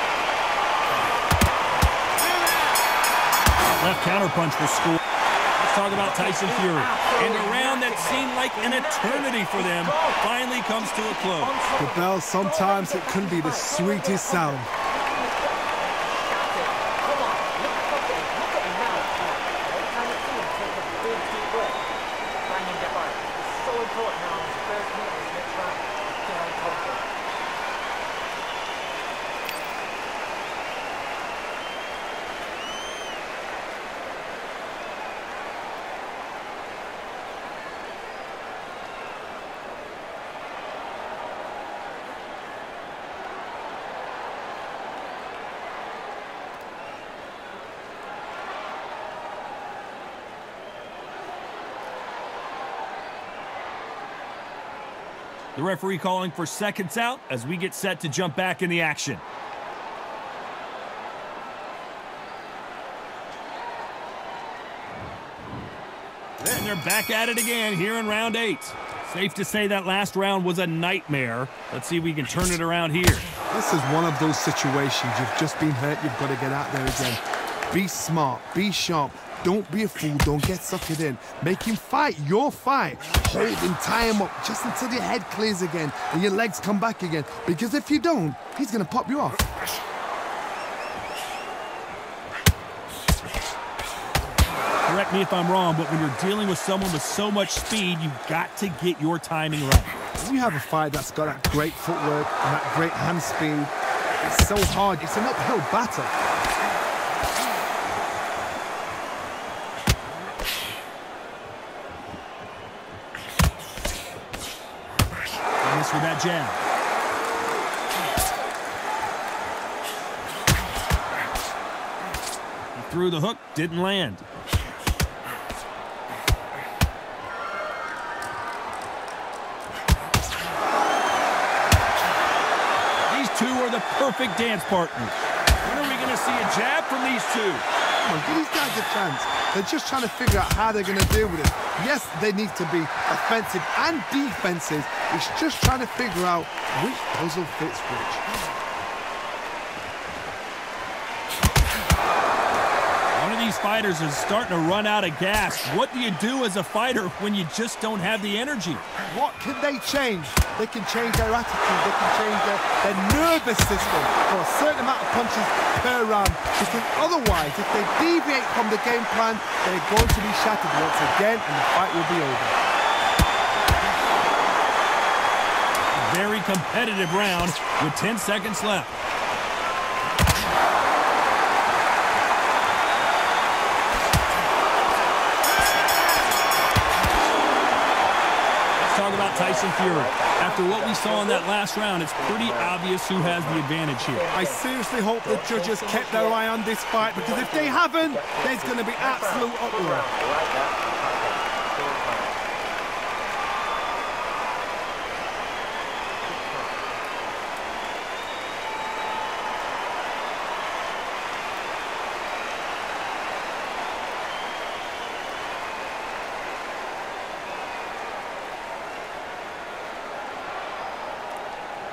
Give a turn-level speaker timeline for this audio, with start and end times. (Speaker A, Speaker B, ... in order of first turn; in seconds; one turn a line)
Speaker A: 3.8-5.0
Speaker A: 5.6-11.5
Speaker B: 6.0-21.9
Speaker C: 11.8-14.7
Speaker B: 22.4-27.1
Speaker A: 55.5-59.2
Speaker A: 66.4-73.2
Speaker C: 73.5-89.4
Speaker A: 94.8-100.0
Speaker C: 100.2-106.1
Speaker A: 115.6-116.6
Speaker A: 122.7-124.2
Speaker A: 133.1-137.6
Speaker C: 138.0-148.2
Speaker A: 153.1-158.8
Speaker C: 159.1-172.6
Speaker A: 175.9-178.9
Speaker A: 188.8-194.2
Speaker B: 189.1-191.5
Speaker B: 192.1-194.7
Speaker C: 194.3-200.1
Speaker B: 195.2-202.4
Speaker B: 206.2-206.9